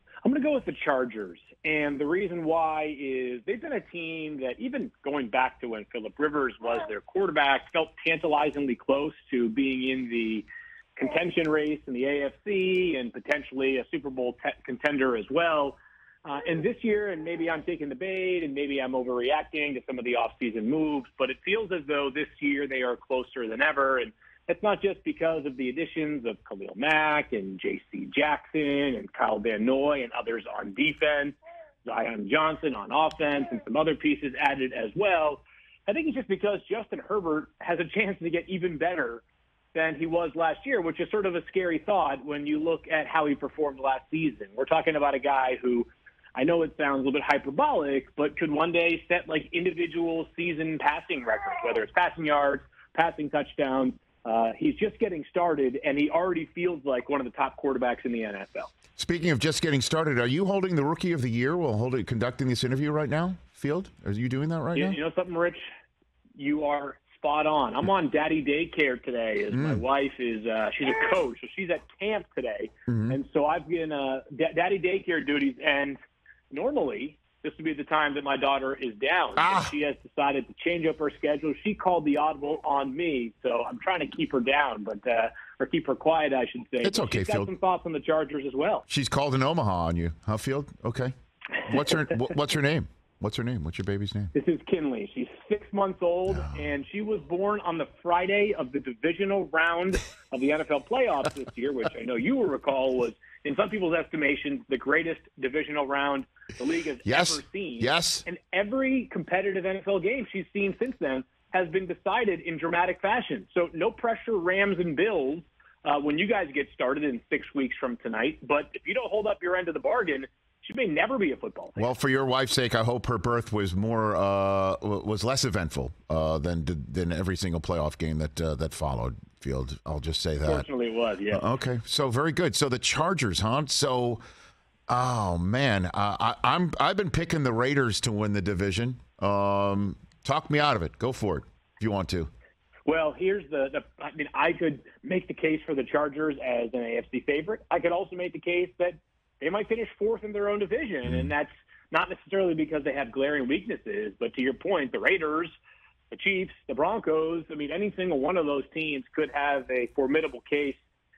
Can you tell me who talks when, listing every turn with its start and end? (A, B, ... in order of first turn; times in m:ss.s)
0:00.2-0:39.2 A
0:39.7-0:58.7 A
0:59.0-1:05.0 B
1:04.7-1:05.6 A
1:06.4-1:16.0 A
1:09.5-1:09.8 B
1:12.9-1:13.1 B
1:16.5-1:28.8 A
1:19.4-1:19.7 B
1:26.8-1:27.5 B
1:28.9-1:34.3 B
1:34.3-2:01.8 A
1:47.0-1:48.2 B
2:01.8-2:10.6 B
2:10.4-2:11.4 A
2:11.3-2:14.2 B
2:14.9-2:22.3 B
2:22.8-2:35.5 A
2:36.1-2:40.8 A